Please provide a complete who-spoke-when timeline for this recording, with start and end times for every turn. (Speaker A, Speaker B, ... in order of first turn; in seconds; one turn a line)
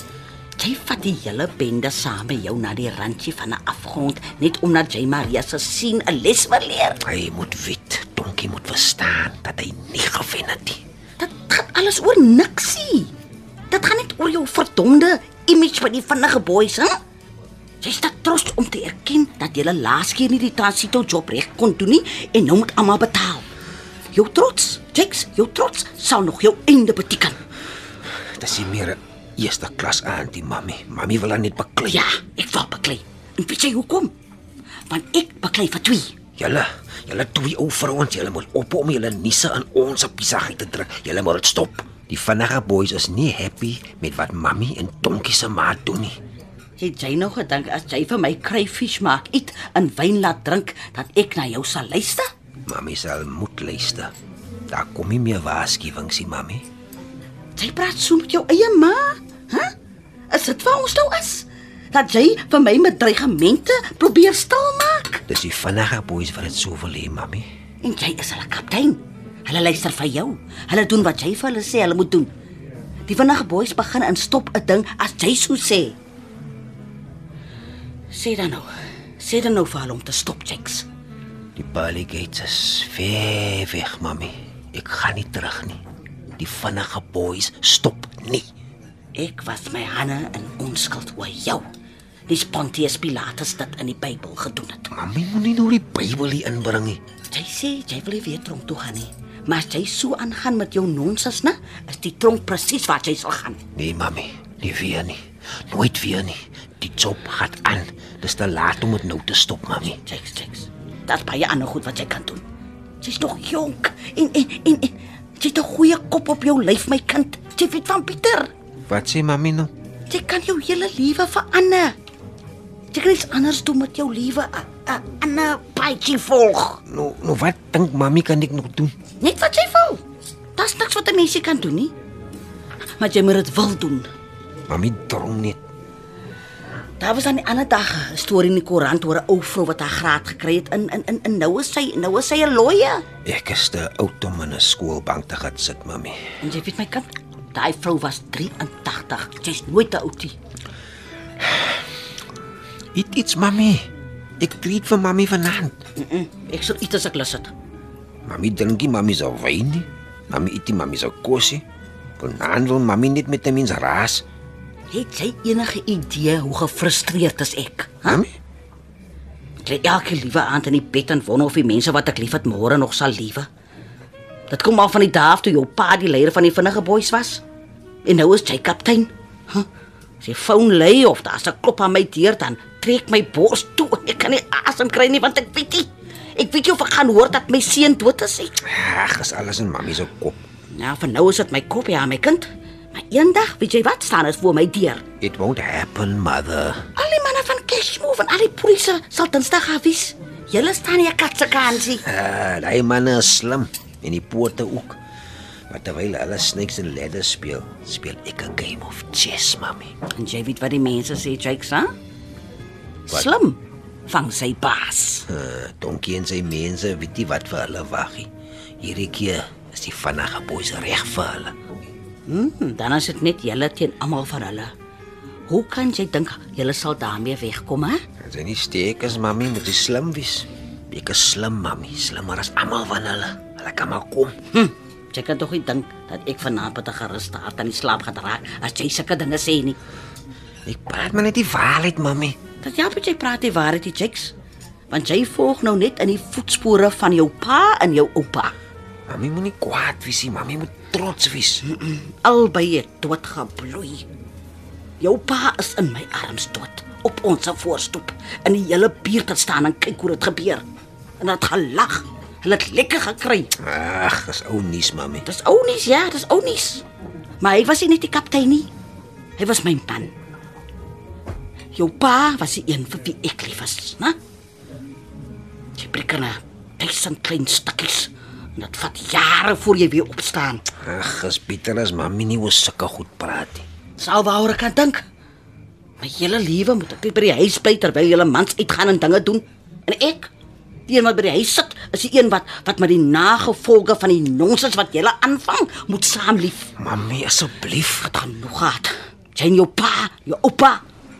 Speaker A: 0.6-7.0
Speaker B: 7.0-10.8
Speaker A: 11.2-13.1
Speaker A: 13.7-16.9
Speaker A: 17.8-23.5
Speaker A: 24.1-27.4
Speaker B: 28.4-32.1
Speaker A: 31.9-34.1
Speaker A: 34.9-36.1
Speaker B: 36.4-46.2
Speaker A: 46.8-52.2
Speaker B: 52.7-54.1
Speaker B: 54.7-56.6
Speaker A: 57.5-59.7
Speaker A: 60.3-65.2
Speaker B: 65.3-67.5
Speaker A: 67.8-72.3
Speaker A: 73.0-76.0
Speaker A: 78.1-80.9
Speaker B: 81.5-85.8
Speaker B: 86.4-88.5
Speaker A: 89.1-91.6
Speaker A: 92.3-94.9
Speaker B: 94.9-97.0
Speaker A: 97.3-103.6
Speaker B: 103.7-110.0
Speaker A: 109.9-112.4
Speaker A: 113.0-118.5
Speaker B: 118.9-119.7
Speaker A: 120.1-121.9
Speaker A: 122.9-126.8
Speaker B: 126.9-128.9
Speaker A: 129.2-130.0
Speaker A: 130.6-131.9
Speaker A: 133.0-134.1
Speaker B: 134.7-135.6
Speaker A: 137.0-143.0
Speaker B: 143.2-146.2
Speaker A: 146.4-150.3
Speaker B: 152.9-153.8
Speaker B: 154.4-155.8
Speaker A: 156.0-157.5
Speaker B: 158.2-161.6
Speaker B: 162.2-164.2
Speaker A: 164.9-168.2
Speaker A: 169.6-173.5
Speaker A: 174.5-177.4
Speaker A: 178.0-179.7
Speaker A: 180.2-188.6
Speaker B: 188.6-190.4
Speaker A: 190.7-195.0
Speaker B: 195.2-196.8
Speaker A: 196.9-202.1
Speaker B: 202.0-205.0
Speaker B: 205.7-209.9
Speaker A: 210.1-211.9
Speaker A: 213.1-215.2
Speaker B: 215.3-218.3
Speaker B: 218.8-221.5
Speaker A: 222.2-224.7
Speaker A: 225.5-228.0
Speaker B: 228.2-234.3
Speaker A: 234.5-239.8
Speaker B: 240.7-242.3
Speaker A: 242.6-244.3
Speaker A: 244.9-248.5
Speaker B: 249.1-251.6
Speaker A: 251.6-254.0
Speaker A: 255.0-260.6
Speaker A: 261.2-263.5
Speaker B: 263.6-265.2
Speaker A: 265.2-266.8
Speaker A: 267.4-268.7
Speaker A: 269.4-270.1
Speaker A: 271.7-274.1
Speaker A: 275.8-280.6
Speaker B: 280.8-283.6
Speaker A: 284.0-285.0
Speaker A: 286.0-290.3
Speaker A: 290.9-296.7
Speaker B: 296.8-298.1
Speaker A: 298.0-300.8